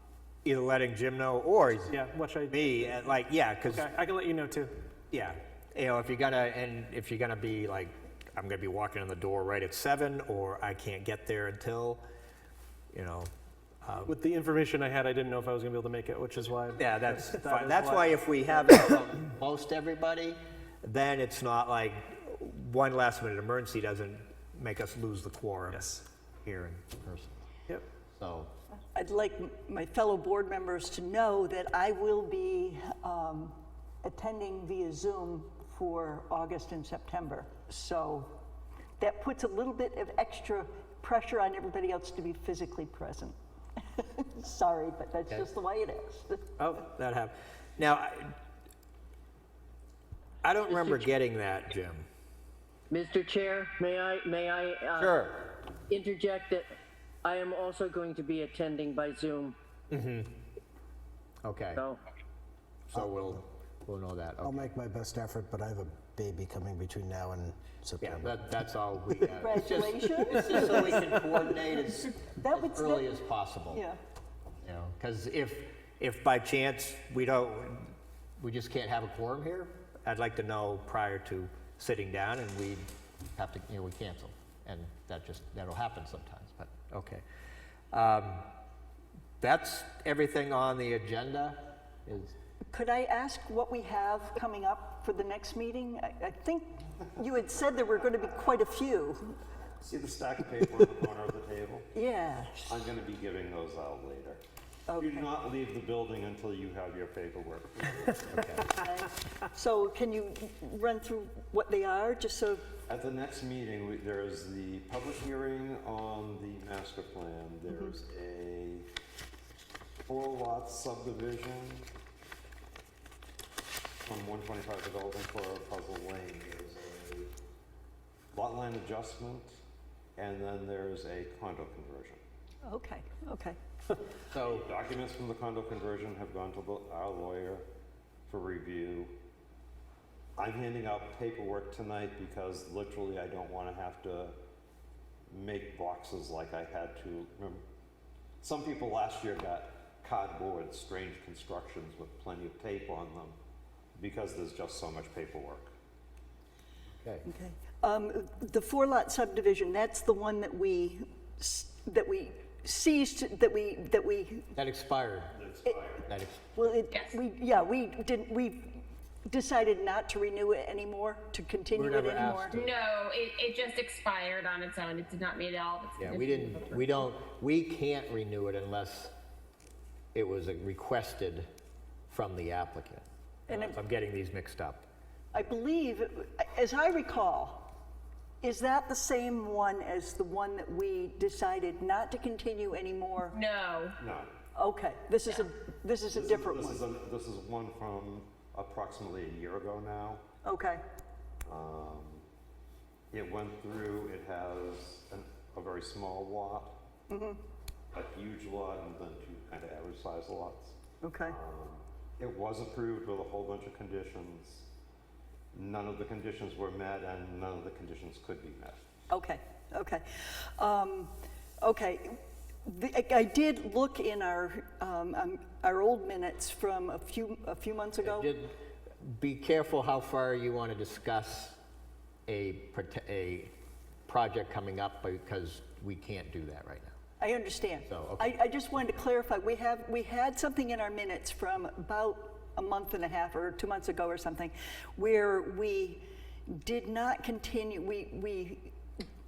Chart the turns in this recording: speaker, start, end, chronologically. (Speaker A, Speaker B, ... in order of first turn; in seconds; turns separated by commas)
Speaker A: 0.5-2.0, Speaker B: 1.9-3.0, Speaker A: 2.5-3.9, Speaker B: 3.7-4.8, Speaker A: 5.1-12.0, Speaker A: 12.9-13.3, Speaker A: 13.8-14.1, Speaker B: 14.1-18.2, Speaker A: 16.8-25.8, Speaker B: 25.7-26.0, Speaker A: 26.4-27.4, Speaker A: 28.1-28.5, Speaker C: 28.9-38.3, Speaker C: 39.0-43.4, Speaker C: 43.9-46.5, Speaker A: 46.6-48.4, Speaker A: 50.4-52.1, Speaker D: 50.6-51.1, Speaker D: 52.9-55.3, Speaker A: 55.0-55.4, Speaker D: 55.9-56.7, Speaker D: 57.2-59.6, Speaker A: 59.9-60.3, Speaker A: 61.4-61.8, Speaker D: 61.7-62.0, Speaker A: 62.9-64.7, Speaker E: 64.4-68.4, Speaker A: 68.0-73.8, Speaker C: 69.3-71.1, Speaker C: 72.4-73.2, Speaker C: 73.7-74.0, Speaker A: 74.6-87.2, Speaker A: 87.9-88.5, Speaker A: 89.4-92.4, Speaker C: 92.7-99.4, Speaker F: 99.8-101.9, Speaker C: 101.9-102.9, Speaker F: 102.6-104.4, Speaker C: 104.9-105.3, Speaker F: 105.0-108.5, Speaker A: 108.3-108.7, Speaker C: 108.7-112.7, Speaker F: 112.9-118.9, Speaker F: 120.1-121.9, Speaker F: 124.1-127.3, Speaker F: 128.3-129.6, Speaker F: 130.2-132.2, Speaker C: 132.6-133.6, Speaker A: 134.3-134.7, Speaker F: 134.4-137.6, Speaker F: 138.3-139.1, Speaker F: 140.4-144.3, Speaker F: 145.3-147.6, Speaker F: 148.4-153.4, Speaker F: 154.0-155.7, Speaker A: 157.0-157.3, Speaker C: 157.3-164.5, Speaker A: 164.6-165.4, Speaker F: 165.3-166.1, Speaker A: 166.1-166.4, Speaker C: 166.6-172.6, Speaker G: 166.9-167.2, Speaker A: 171.7-172.8, Speaker G: 172.5-176.8, Speaker A: 176.0-179.1, Speaker A: 180.1-181.5, Speaker A: 182.1-184.8, Speaker C: 185.3-187.7, Speaker C: 188.4-193.4, Speaker G: 193.3-194.0, Speaker F: 194.0-194.3, Speaker C: 194.6-196.8, Speaker F: 196.1-200.2, Speaker C: 200.4-200.8, Speaker F: 201.5-202.3, Speaker F: 203.1-206.8, Speaker C: 207.1-207.4, Speaker F: 207.9-214.7, Speaker C: 211.0-211.4, Speaker F: 215.5-218.8, Speaker C: 219.1-228.3, Speaker A: 228.0-231.6, Speaker A: 232.3-233.5, Speaker A: 234.1-236.9, Speaker C: 237.2-248.7, Speaker A: 237.9-238.3